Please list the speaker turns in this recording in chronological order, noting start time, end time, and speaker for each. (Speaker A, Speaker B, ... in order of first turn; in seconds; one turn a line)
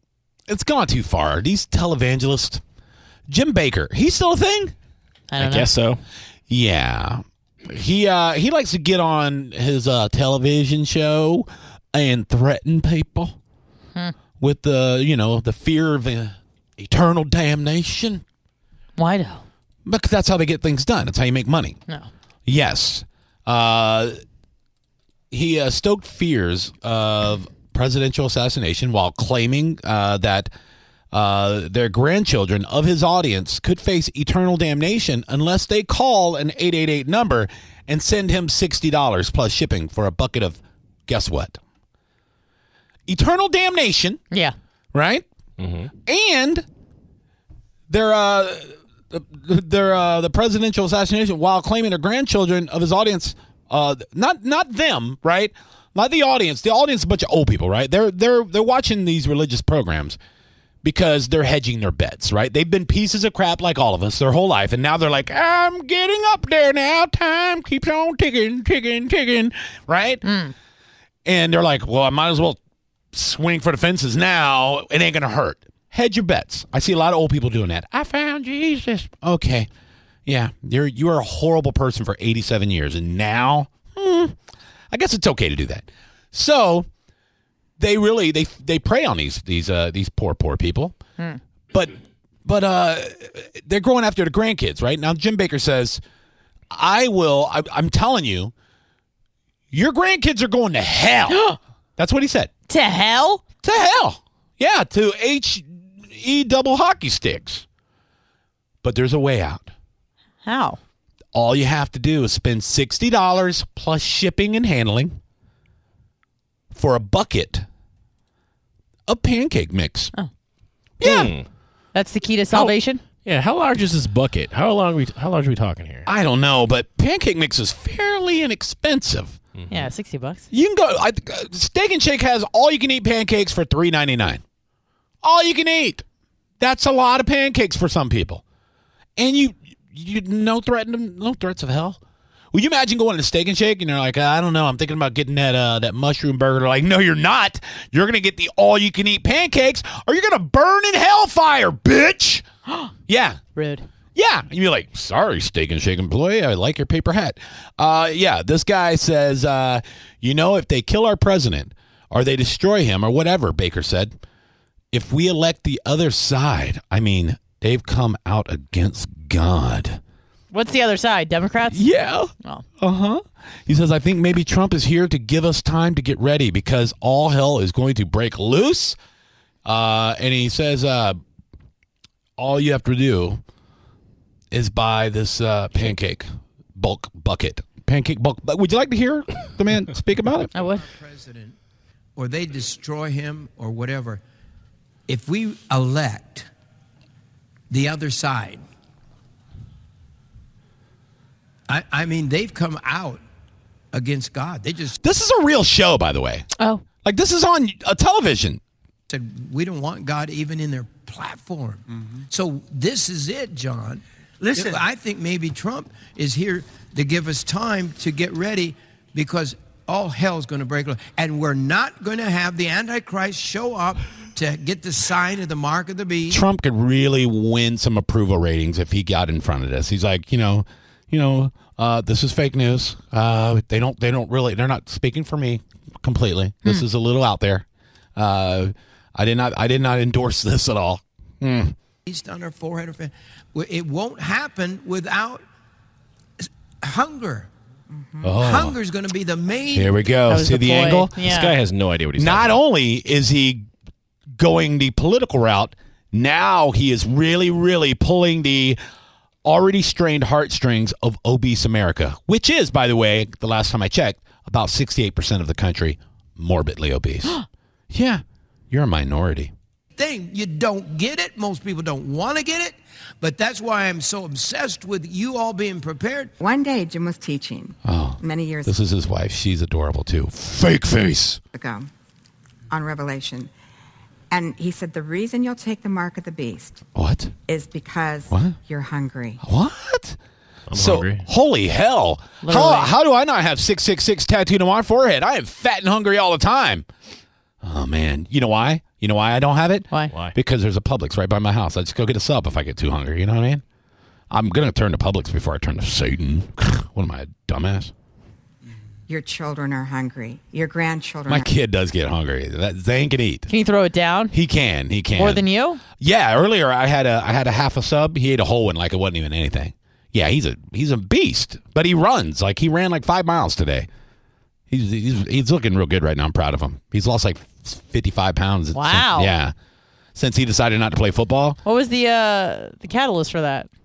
Speaker A: 0.5-2.6
Speaker A: 3.3-4.7
Speaker B: 5.3-5.7
Speaker C: 5.4-6.0
Speaker A: 6.5-13.4
Speaker A: 14.4-18.2
Speaker B: 19.0-19.4
Speaker A: 19.9-21.8
Speaker A: 22.5-24.2
Speaker A: 25.3-30.5
Speaker A: 31.1-41.6
Speaker A: 43.1-44.2
Speaker A: 44.9-45.2
Speaker C: 45.6-45.9
Speaker A: 46.1-46.7
Speaker A: 47.9-60.2
Speaker A: 60.8-70.3
Speaker B: 70.2-70.5
Speaker A: 71.2-72.6
Speaker A: 73.1-79.7
Speaker A: 80.3-84.3
Speaker A: 84.9-86.9
Speaker A: 87.8-91.0
Speaker A: 91.7-96.0
Speaker A: 96.7-98.5
Speaker A: 99.7-102.5
Speaker B: 101.3-101.6
Speaker B: 102.7-103.4
Speaker A: 103.6-107.7
Speaker A: 108.8-109.7
Speaker B: 110.4-110.8
Speaker A: 111.3-115.2
Speaker A: 116.7-117.7
Speaker A: 119.1-120.1
Speaker A: 121.0-121.3
Speaker C: 121.0-121.5
Speaker B: 121.9-123.0
Speaker C: 123.2-126.1
Speaker A: 126.1-129.4
Speaker C: 129.6-129.9
Speaker B: 129.7-130.4
Speaker A: 130.5-134.4
Speaker A: 135.2-136.0
Speaker A: 136.6-138.4
Speaker A: 139.2-142.0
Speaker A: 142.5-152.4
Speaker A: 153.1-153.4
Speaker B: 153.6-153.8
Speaker A: 154.2-164.2
Speaker A: 164.9-170.0
Speaker B: 170.5-171.8
Speaker A: 171.7-179.0
Speaker A: 179.7-181.2
Speaker A: 182.4-183.4
Speaker A: 184.5-190.5
Speaker B: 190.5-190.9
Speaker D: 190.5-191.6
Speaker D: 192.2-194.2
Speaker D: 195.1-196.5
Speaker D: 197.7-198.6
Speaker D: 201.7-203.2
Speaker D: 203.9-205.0
Speaker A: 205.0-206.5
Speaker B: 206.6-206.8
Speaker A: 207.0-208.6
Speaker D: 209.1-226.4
Speaker A: 226.3-237.7
Speaker A: 238.2-241.8
Speaker D: 242.1-245.4
Speaker D: 246.4-247.5
Speaker E: 247.9-248.3
Speaker A: 248.2-248.8
Speaker D: 248.4-249.9
Speaker A: 249.7-251.2
Speaker B: 250.3-251.6
Speaker C: 251.2-252.6
Speaker A: 252.2-253.7
Speaker A: 254.4-258.8
Speaker A: 259.4-269.5
Speaker D: 270.0-276.3
Speaker E: 276.4-278.7
Speaker A: 277.9-281.4
Speaker E: 281.5-281.9
Speaker E: 282.7-283.5
Speaker E: 284.3-286.8
Speaker A: 286.9-287.3
Speaker E: 287.5-289.4
Speaker A: 288.3-288.6
Speaker A: 289.4-290.2
Speaker C: 290.7-291.3
Speaker A: 290.7-296.9
Speaker B: 292.4-292.9
Speaker A: 297.6-303.6
Speaker A: 304.3-307.9
Speaker E: 309.1-311.5
Speaker A: 311.3-313.5
Speaker B: 313.5-314.3
Speaker A: 314.3-315.4
Speaker B: 315.2-315.8
Speaker A: 316.0-323.9
Speaker A: 324.7-329.5
Speaker B: 328.7-329.3
Speaker A: 330.1-331.6
Speaker B: 331.6-333.7